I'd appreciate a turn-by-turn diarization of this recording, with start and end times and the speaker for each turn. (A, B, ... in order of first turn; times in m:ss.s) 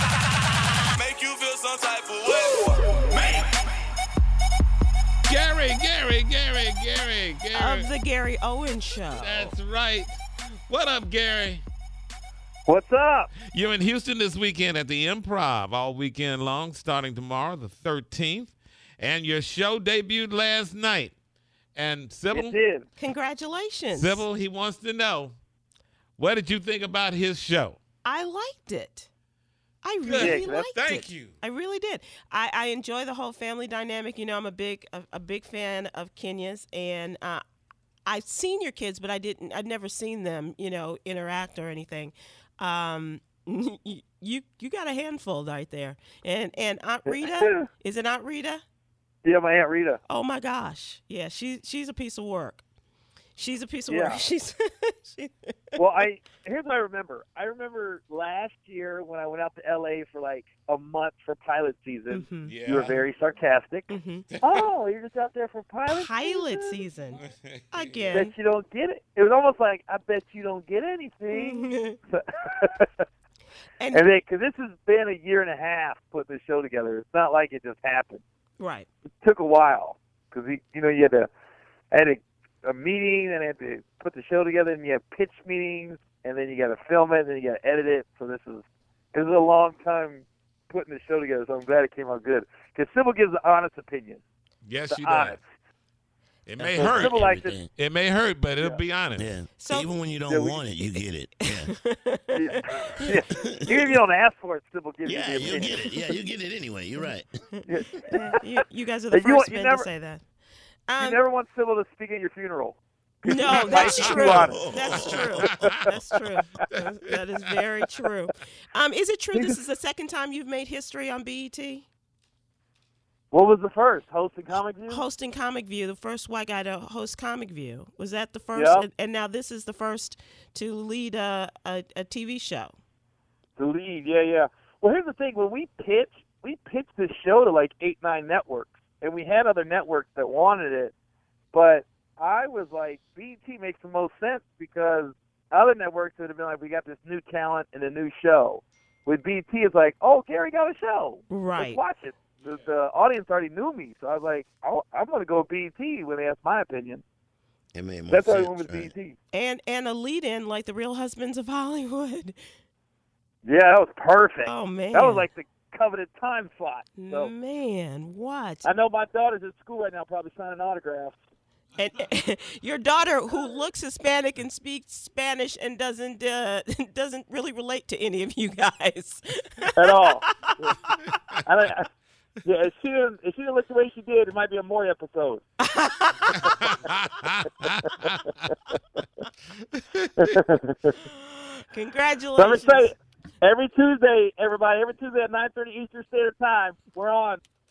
0:01.0-0:03.4 A
0:05.2-0:07.9 B
0:07.5-0:09.6 C
0:09.1-0:10.2 B
0:10.7-0:11.6 B
0:12.7-0:13.3 D
0:13.4-0:21.1 B
0:21.7-0:22.6 B
0:22.3-0:22.8 D
0:23.0-0:24.2 C
0:23.9-0:25.3 B
0:26.2-0:27.8 B
0:28.0-0:29.1 C
0:29.8-0:37.4 C
0:30.0-0:31.3 B
0:30.2-0:30.7 D
0:38.0-0:48.6 C
0:47.1-0:47.6 D
0:49.2-0:50.0 D
0:50.1-0:52.6 C
0:53.4-0:55.8 C
0:53.9-0:54.2 D
0:55.8-1:03.9 D
1:02.1-1:02.6 C
1:02.4-1:03.0 B
1:03.9-1:04.2 C
1:04.3-1:04.6 B
1:04.4-1:06.8 D
1:05.9-1:07.2 C
1:07.2-1:08.2 B
1:07.7-1:08.3 C
1:08.1-1:13.0 D
1:11.3-1:12.0 C
1:13.8-1:14.0 C
1:13.9-1:18.2 D
1:18.6-1:18.9 C
1:19.2-1:21.3 D
1:21.9-1:34.2 D
1:34.6-1:35.4 B
1:34.9-1:35.4 D
1:36.4-1:37.2 B
1:36.6-1:37.7 E
1:36.8-1:37.6 D
1:37.8-1:39.2 B
1:39.2-1:41.7 E
1:39.6-1:39.9 C
1:40.3-1:40.7 D
1:41.4-1:43.2 C
1:42.3-1:45.8 D
1:45.0-1:47.3 E
1:47.0-1:50.2 C
1:47.6-1:48.2 D
1:49.1-1:49.8 D
1:50.9-1:51.2 C
1:51.0-1:54.7 D
1:53.2-2:01.8 C
1:53.8-1:55.5 E
1:53.9-1:54.3 B
1:59.3-1:59.6 D
2:03.3-2:05.0 D
2:04.9-2:12.8 C
2:08.5-2:08.8 D
2:13.6-2:20.9 D
2:21.5-2:37.0 D
2:31.3-2:31.8 C
2:37.7-2:38.9 E
2:38.1-2:39.2 D
2:39.3-2:42.4 C
2:43.4-2:47.3 D
2:44.4-2:45.2 C
2:47.0-2:48.7 C
2:48.6-2:51.2 D
2:51.8-3:01.0 C
2:59.8-3:00.8 D
3:01.4-3:01.9 D
3:02.4-3:05.4 D
3:05.6-3:06.5 C
3:06.4-3:08.2 B
3:09.7-3:10.1 B
3:10.2-3:10.9 D
3:11.0-3:12.9 C
3:12.4-3:17.4 D